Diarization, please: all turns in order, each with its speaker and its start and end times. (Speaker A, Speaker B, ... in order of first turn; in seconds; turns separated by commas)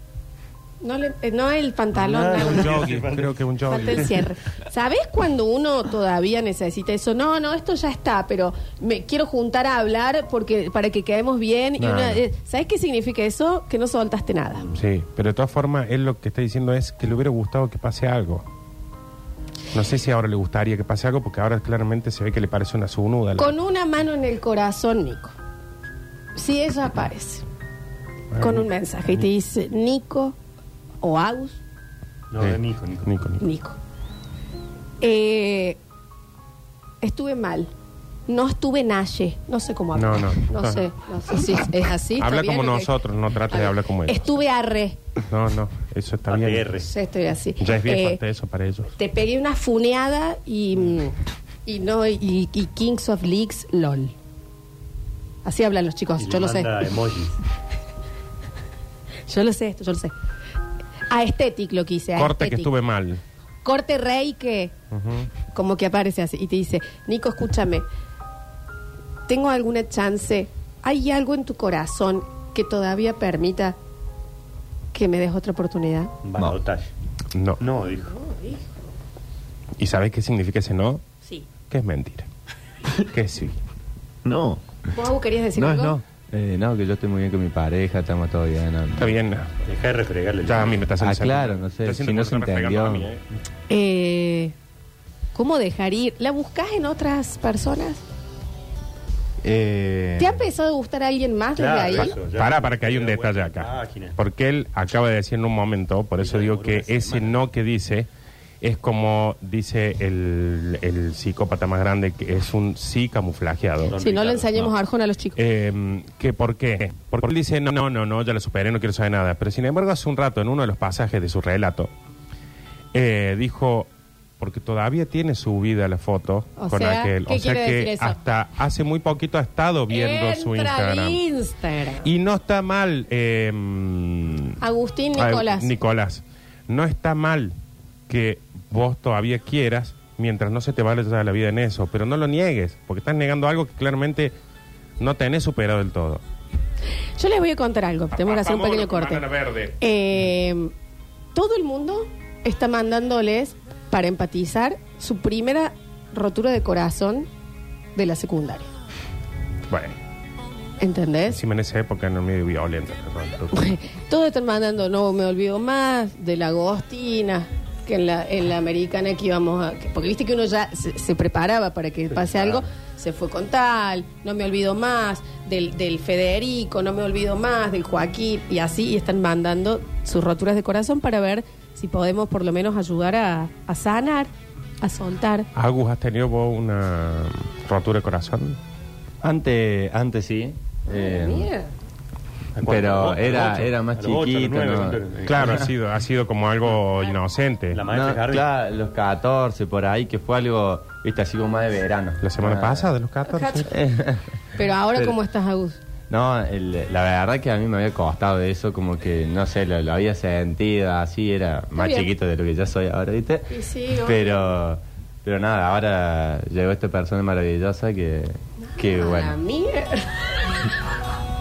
Speaker A: 0.8-2.9, Speaker B: 1.9-4.1, Speaker C: 2.3-4.2, Speaker A: 3.7-14.7, Speaker C: 11.8-12.2, Speaker C: 14.7-18.4, Speaker C: 19.7-23.6, Speaker A: 23.4-25.3, Speaker A: 26.4-27.4, Speaker C: 28.3-28.7, Speaker A: 28.4-30.4, Speaker A: 31.0-31.6, Speaker B: 32.3-33.1, Speaker C: 32.4-33.4, Speaker A: 33.4-33.8, Speaker A: 35.0-35.8, Speaker A: 37.0-37.7, Speaker A: 38.3-42.9, Speaker C: 40.0-40.9, Speaker C: 42.2-44.3, Speaker A: 43.5-45.0, Speaker C: 45.3-46.8, Speaker B: 46.3-46.9, Speaker A: 46.8-48.2, Speaker C: 47.6-48.9, Speaker A: 49.0-54.1, Speaker A: 55.5-56.8, Speaker B: 56.2-57.4, Speaker A: 59.3-60.1, Speaker A: 61.1-62.7, Speaker C: 62.2-63.2, Speaker A: 63.6-64.7, Speaker C: 64.9-65.3, Speaker A: 65.5-67.8, Speaker A: 69.3-73.8, Speaker A: 74.9-76.1, Speaker B: 76.2-76.9, Speaker C: 77.3-77.6, Speaker B: 77.6-78.1, Speaker A: 78.0-78.7, Speaker C: 79.8-81.0, Speaker C: 81.7-82.3, Speaker C: 83.0-83.6, Speaker D: 84.2-84.6, Speaker A: 84.9-86.0, Speaker D: 85.5-86.0, Speaker E: 86.3-89.1, Speaker C: 89.0-89.5, Speaker B: 89.7-90.8, Speaker C: 90.4-93.2, Speaker E: 91.0-93.1, Speaker A: 93.7-94.5, Speaker A: 95.3-98.0, Speaker D: 99.4-100.5, Speaker A: 100.2-102.2, Speaker B: 101.6-104.2, Speaker C: 101.9-108.1, Speaker B: 106.2-107.4, Speaker C: 108.6-114.0, Speaker B: 113.8-114.7, Speaker A: 114.0-115.4, Speaker C: 115.4-121.9, Speaker C: 122.9-123.9, Speaker C: 124.4-131.2, Speaker A: 126.6-128.2, Speaker A: 129.9-132.1, Speaker C: 132.0-134.6, Speaker A: 134.6-135.8, Speaker C: 135.1-137.6, Speaker C: 138.1-144.3, Speaker C: 145.0-146.2, Speaker A: 147.2-149.3, Speaker C: 148.1-149.7, Speaker A: 149.8-150.7, Speaker A: 151.3-157.3, Speaker A: 157.9-158.7, Speaker C: 159.7-159.9, Speaker A: 160.8-161.4, Speaker C: 161.3-163.7, Speaker A: 163.5-184.3, Speaker B: 172.2-172.6, Speaker A: 184.8-185.5, Speaker C: 185.6-188.6, Speaker E: 189.2-191.5, Speaker A: 190.9-191.7, Speaker B: 192.6-195.7, Speaker E: 192.6-195.7, Speaker C: 195.2-197.8, Speaker B: 197.7-198.5, Speaker E: 197.9-202.9, Speaker C: 202.2-203.7, Speaker A: 203.3-203.7, Speaker E: 203.7-204.4, Speaker A: 204.6-205.8, Speaker E: 206.1-213.5, Speaker A: 211.8-212.1, Speaker A: 213.5-214.6, Speaker E: 214.0-219.4, Speaker A: 218.7-220.3